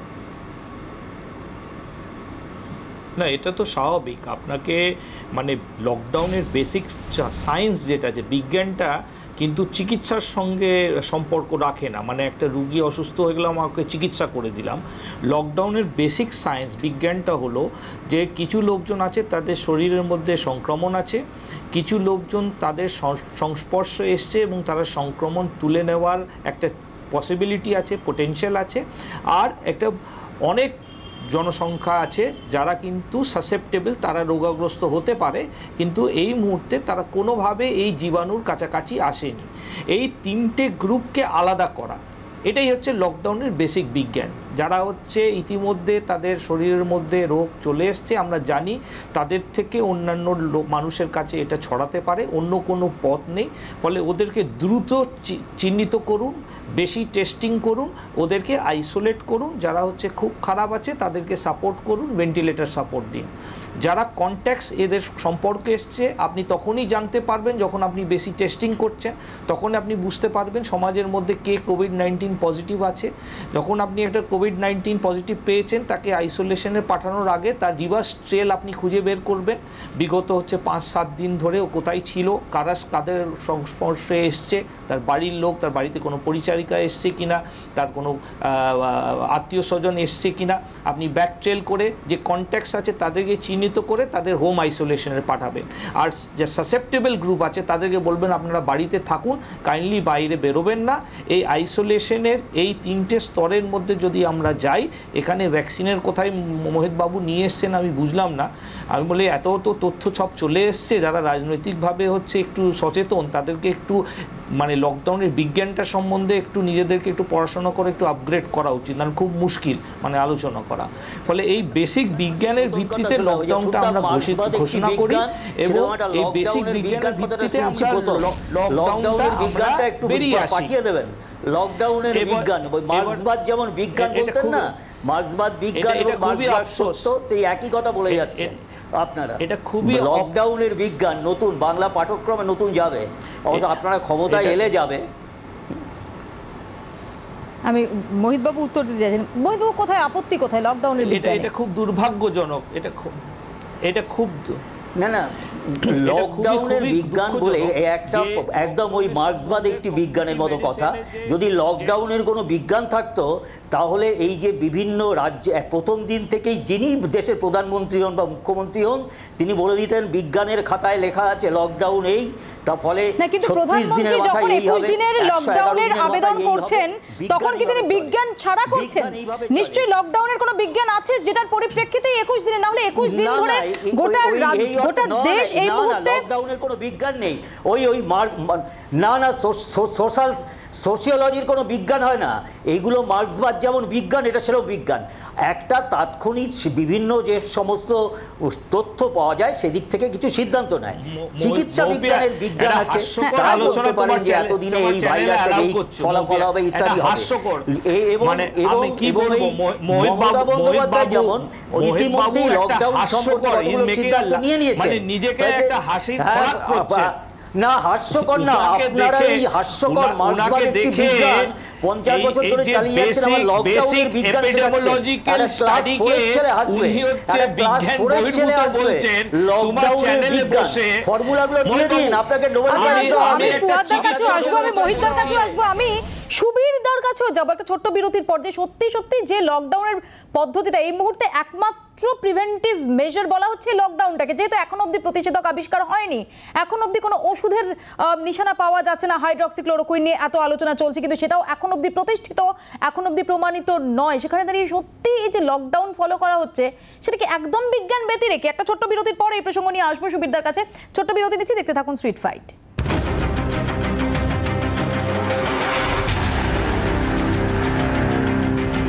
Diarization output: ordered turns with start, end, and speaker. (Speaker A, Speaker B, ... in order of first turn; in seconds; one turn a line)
Speaker A: 3.2-4.8
Speaker A: 5.3-21.2
Speaker A: 21.7-29.9
Speaker A: 30.5-30.8
Speaker A: 31.3-114.0
Speaker A: 114.6-130.7
Speaker B: 122.6-145.1
Speaker A: 132.1-133.2
Speaker A: 134.0-134.7
Speaker A: 135.8-137.1
Speaker A: 138.1-138.6
Speaker A: 139.4-140.3
Speaker A: 143.5-144.6
Speaker C: 147.7-151.5
Speaker A: 151.0-153.2
Speaker A: 153.8-154.6
Speaker B: 155.0-179.9
Speaker A: 155.9-161.9
Speaker C: 173.2-186.3
Speaker B: 183.0-235.2
Speaker A: 201.0-217.1
Speaker C: 203.2-203.8
Speaker A: 218.2-221.5
Speaker A: 222.1-235.6
Speaker C: 232.7-262.5